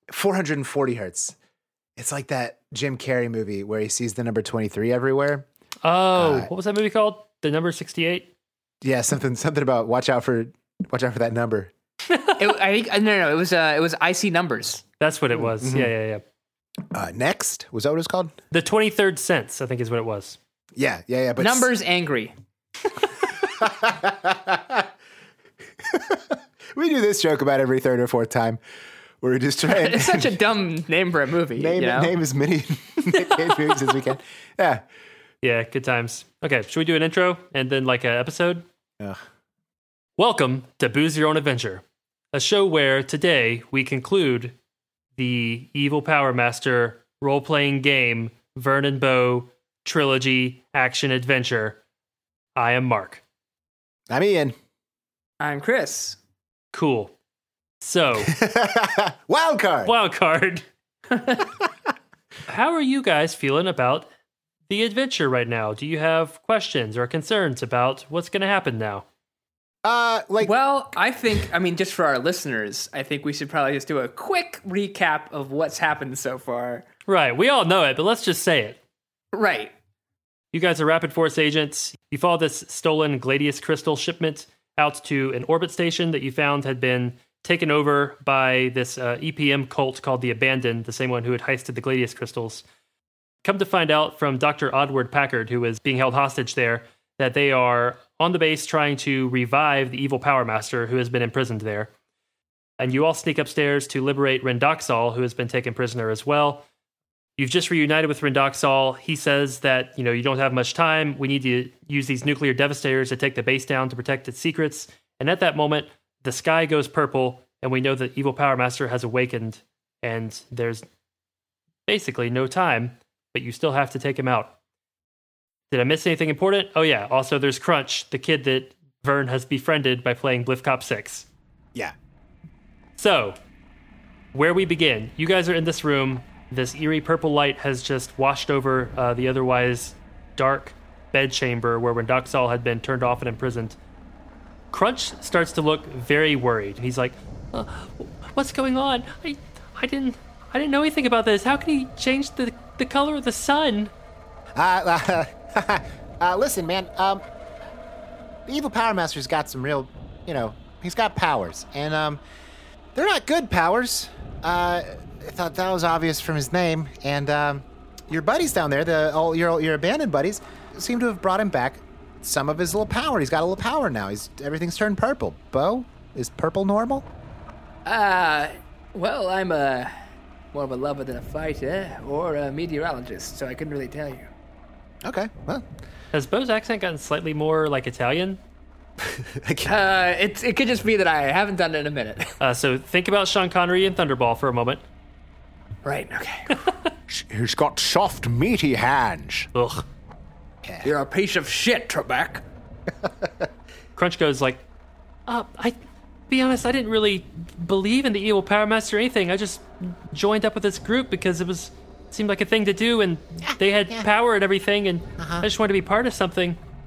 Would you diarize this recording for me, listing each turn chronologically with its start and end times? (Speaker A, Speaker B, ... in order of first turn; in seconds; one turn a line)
Speaker A: 0.1-1.3
Speaker A: 2.0-5.5
Speaker B: 5.8-8.3
Speaker A: 6.2-6.5
Speaker A: 8.8-11.7
Speaker C: 12.4-14.8
Speaker B: 15.0-16.2
Speaker A: 15.6-15.9
Speaker A: 16.9-18.3
Speaker B: 18.5-20.4
Speaker A: 20.8-21.7
Speaker C: 21.4-22.3
Speaker A: 23.4-24.9
Speaker A: 25.8-28.6
Speaker A: 29.2-30.3
Speaker C: 29.7-32.1
Speaker A: 31.5-34.8
Speaker B: 35.4-38.7
Speaker B: 40.2-44.5
Speaker B: 45.2-51.8
Speaker B: 52.5-53.2
Speaker A: 54.1-54.5
Speaker C: 55.4-56.2
Speaker B: 56.7-57.1
Speaker B: 57.8-58.3
Speaker A: 58.3-59.9
Speaker B: 59.9-60.6
Speaker B: 62.5-64.0
Speaker B: 64.7-69.0
Speaker A: 69.8-70.5
Speaker C: 70.4-76.8
Speaker B: 77.1-78.8
Speaker C: 79.3-79.7
Speaker B: 80.5-92.6
Speaker B: 93.4-101.9
Speaker B: 102.8-106.6
Speaker B: 107.4-120.8
Speaker B: 121.9-124.5
Speaker B: 125.7-131.3
Speaker B: 133.0-133.3
Speaker B: 134.3-143.8
Speaker B: 144.7-153.9
Speaker A: 154.6-157.2
Speaker A: 158.5-162.2
Speaker A: 162.9-177.1
Speaker C: 177.8-179.9
Speaker C: 180.5-184.3
Speaker A: 185.0-185.7
Speaker B: 186.1-188.4
Speaker A: 189.1-189.7
Speaker C: 189.7-192.3
Speaker B: 192.4-194.8
Speaker C: 195.8-196.7
Speaker A: 197.1-199.5
Speaker B: 199.6-199.8
Speaker A: 200.6-200.9
Speaker C: 200.8-202.4
Speaker A: 203.0-203.5
Speaker B: 204.0-204.6
Speaker B: 205.3-205.8
Speaker B: 206.3-216.6
Speaker A: 213.4-214.1
Speaker A: 215.2-215.5